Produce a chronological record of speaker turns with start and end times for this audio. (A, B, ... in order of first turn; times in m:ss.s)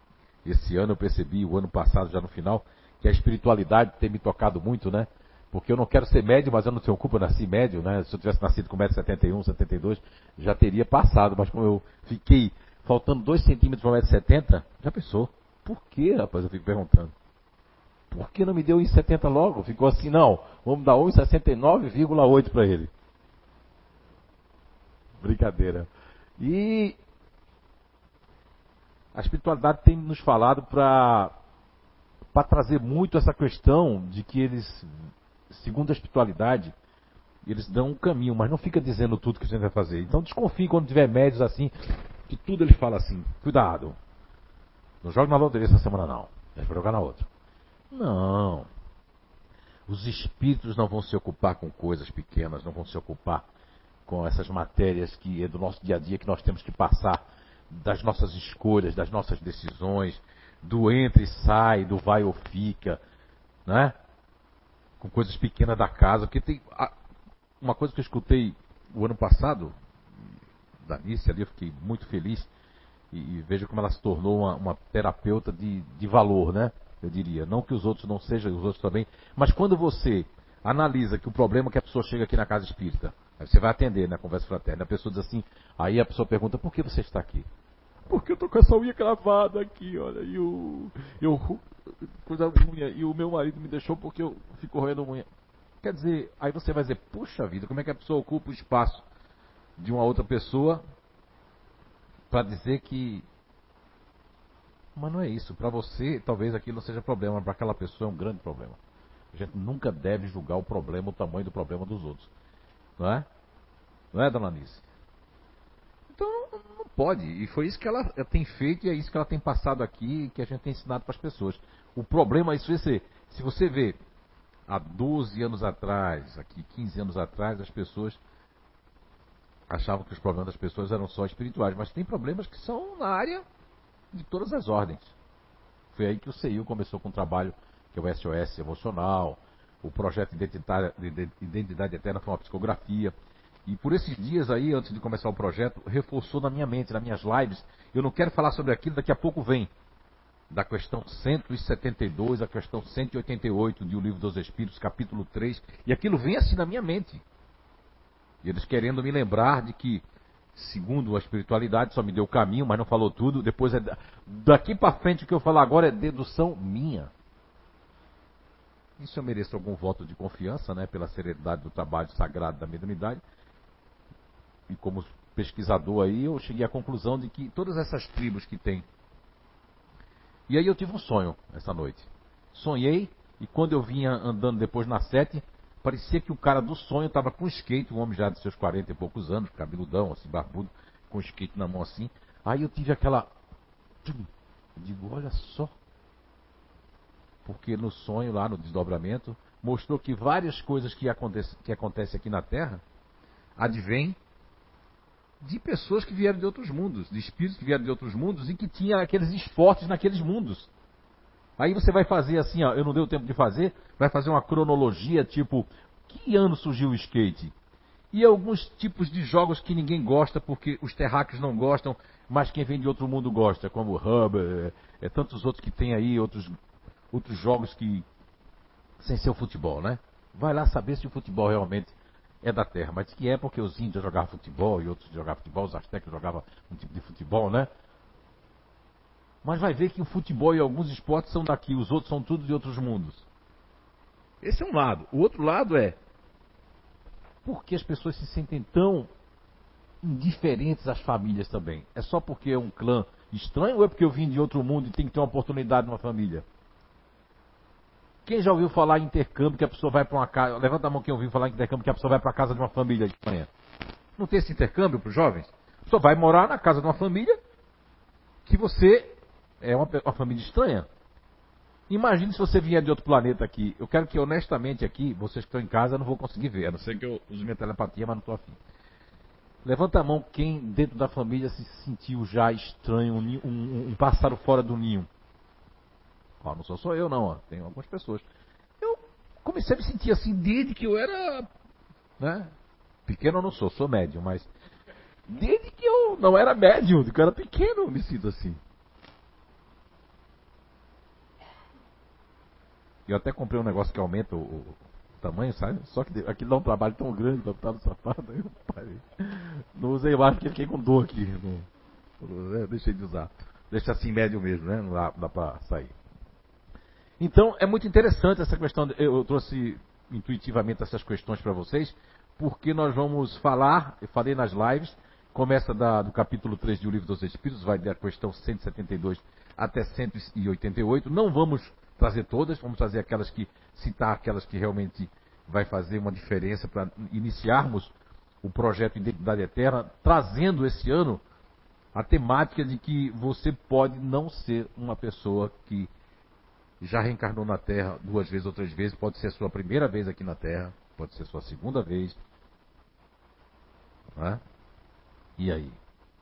0:00.4-0:17.1 A
0:18.1-0:22.9 A
0:25.2-0:25.9 A
0:26.4-0:27.0 A
0:29.1-0:31.3 A
0:32.3-0:34.9 A
0:35.5-0:36.7 A
0:37.4-0:44.0 A
0:45.0-0:47.3 A
0:47.9-0:48.7 A
0:49.9-0:53.4 A
0:54.0-1:03.0 A
1:03.6-1:03.9 A
1:05.0-1:06.9 A
1:07.6-1:09.7 A
1:10.8-1:12.5 A
1:13.1-1:27.5 A
1:28.1-1:31.6 A
1:32.2-1:35.3 A
1:35.8-1:39.0 A
1:39.8-1:40.8 A
1:42.3-1:43.2 A
1:45.0-1:48.8 A
1:49.3-1:52.3 A
1:53.0-1:53.2 A
1:54.1-1:54.8 A
1:56.1-2:04.0 A
2:04.7-2:08.2 A
2:09.7-2:13.4 A
2:14.1-2:15.1 A
2:15.9-2:23.1 A
2:23.6-2:29.7 A
2:30.5-2:37.2 A
2:38.4-2:40.0 A
2:40.5-2:47.1 A
2:49.0-2:53.2 A
2:54.7-2:58.8 A
3:00.5-3:13.3 A
3:14.0-3:15.7 A
3:17.4-3:22.8 A
3:23.6-3:24.2 A
3:25.4-3:30.7 A
3:31.6-3:37.5 A
3:38.1-3:46.5 A
3:47.1-3:48.0 A
3:49.0-3:57.7 A
3:59.4-4:03.2 A
4:04.4-4:06.0 A
4:07.4-4:09.1 A
4:10.0-4:16.4 A
4:18.2-4:23.5 A
4:24.2-4:27.4 A
4:28.4-4:30.9 A
4:31.9-4:38.6 A
4:39.6-4:45.1 A
4:46.4-4:48.2 A
4:48.8-4:51.5 A
4:52.2-4:52.5 A
4:53.0-4:54.5 A
4:55.3-4:58.6 A
5:03.1-5:11.7 A
5:12.2-5:15.9 A
5:17.2-5:41.2 A
5:41.9-5:45.9 A
5:46.8-5:52.2 A
5:54.2-5:54.4 A
5:55.4-5:55.8 A